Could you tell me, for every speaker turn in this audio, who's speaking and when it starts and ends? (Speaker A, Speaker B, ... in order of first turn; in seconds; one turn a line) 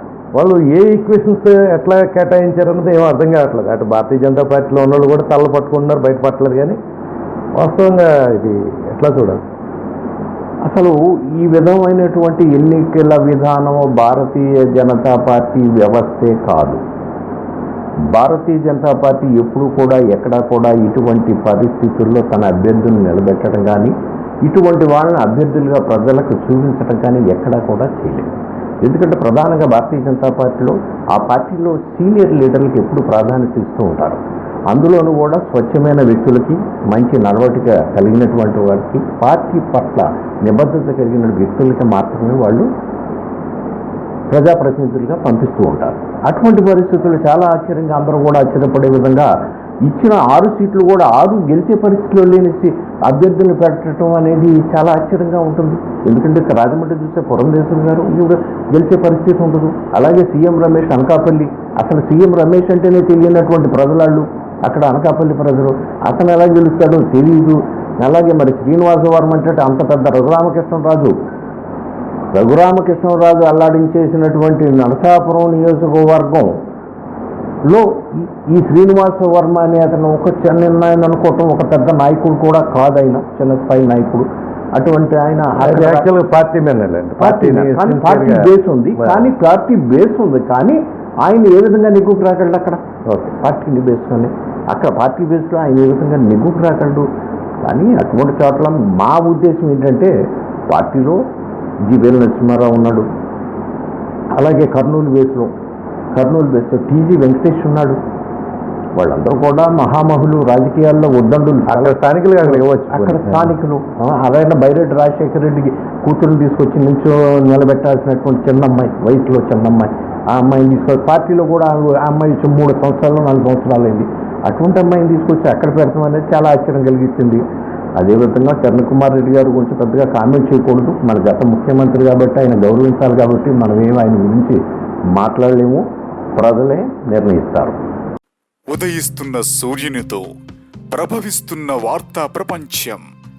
Speaker A: 0.3-6.8
Speaker A: 7.6-9.4
Speaker B: 10.7-16.8
Speaker B: 18.1-23.9
Speaker B: 24.4-42.7
Speaker B: 44.3-49.3
Speaker B: 49.8-71.1
Speaker B: 72.3-76.5
Speaker B: 77.7-86.1
Speaker A: 85.6-89.3
Speaker B: 87.2-92.8
Speaker A: 93.1-93.3
Speaker B: 93.4-97.1
Speaker B: 97.6-100.1
Speaker B: 100.7-101.2
Speaker B: 101.9-103.1
Speaker B: 104.3-105.5
Speaker B: 106.2-108.0
Speaker B: 109.0-127.4
Speaker A: 111.7-113.5
Speaker B: 128.0-134.6
Speaker B: 135.1-135.8
Speaker B: 136.4-137.9
Speaker C: 138.7-140.3
Speaker C: 140.9-143.1